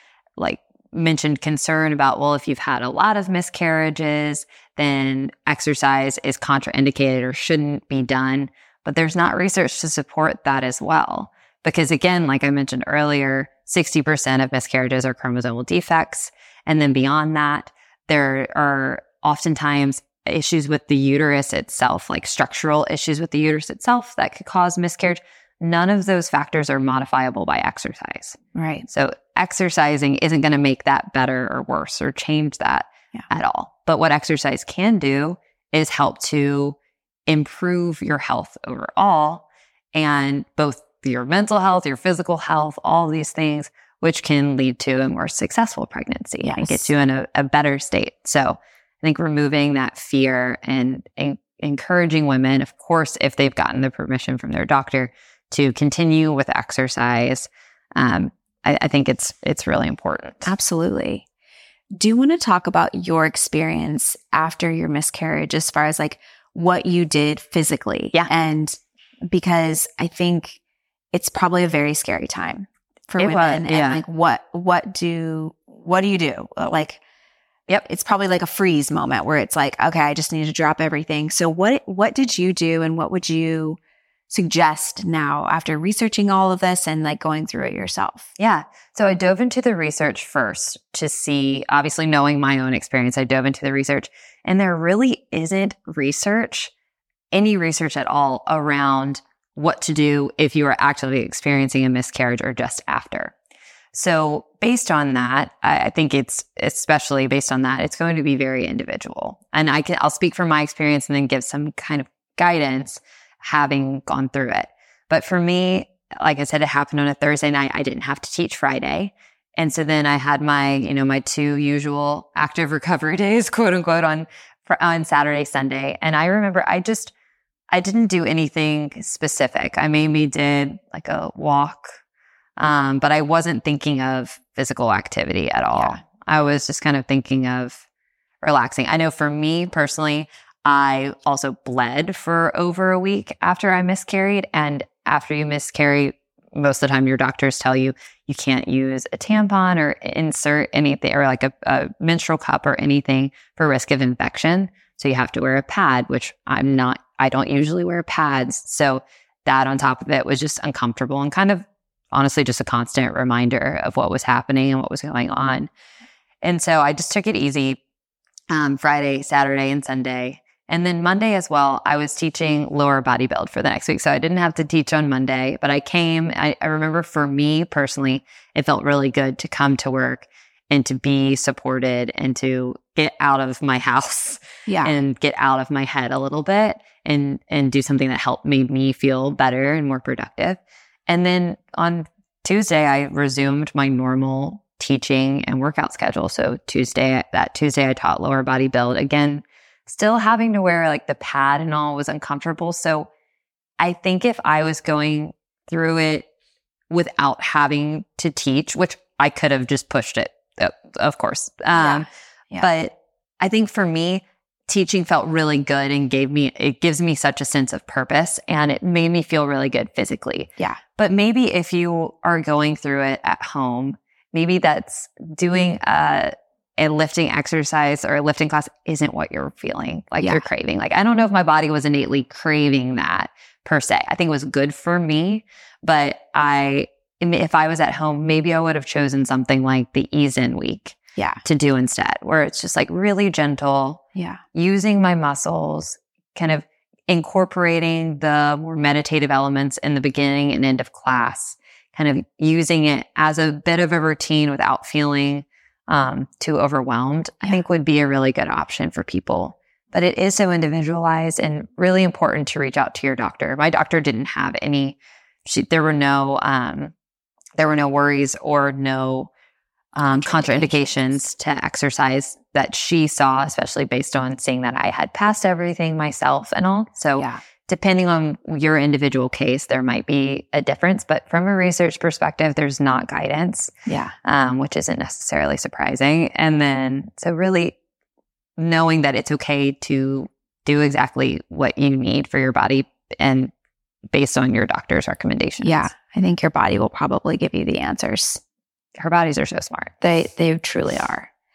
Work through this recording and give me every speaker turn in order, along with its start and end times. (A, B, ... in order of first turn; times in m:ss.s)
0:00.4-0:36.8 A
0:28.5-0:28.8 B
0:37.3-1:00.5 A
0:46.4-0:46.9 B
1:00.4-1:01.2 B
1:01.9-1:10.6 B
1:11.1-1:17.0 B
1:13.2-1:14.0 A
1:17.8-1:23.8 B
1:24.3-1:28.3 B
1:28.4-1:36.7 A
1:37.3-1:43.3 A
1:43.9-2:07.1 A
2:07.7-2:12.0 A
2:12.6-2:17.8 A
2:18.4-2:45.7 A
2:46.4-2:47.8 A
2:48.5-3:23.1 A
3:04.7-3:04.9 B
3:23.8-3:26.3 A
3:26.9-3:32.1 A
3:31.7-3:32.7 B
3:32.6-4:04.0 A
3:50.2-3:50.4 B
4:01.2-4:01.4 B
4:04.1-4:04.4 B
4:04.5-4:26.9 A
4:27.6-4:29.3 A
4:29.9-4:43.7 A
4:30.2-4:30.7 B
4:43.9-4:44.1 B
4:44.2-4:47.8 A
4:48.6-4:53.5 A
4:54.1-4:55.9 A
4:55.6-4:58.4 B
4:59.0-4:59.9 A
5:00.0-5:01.3 B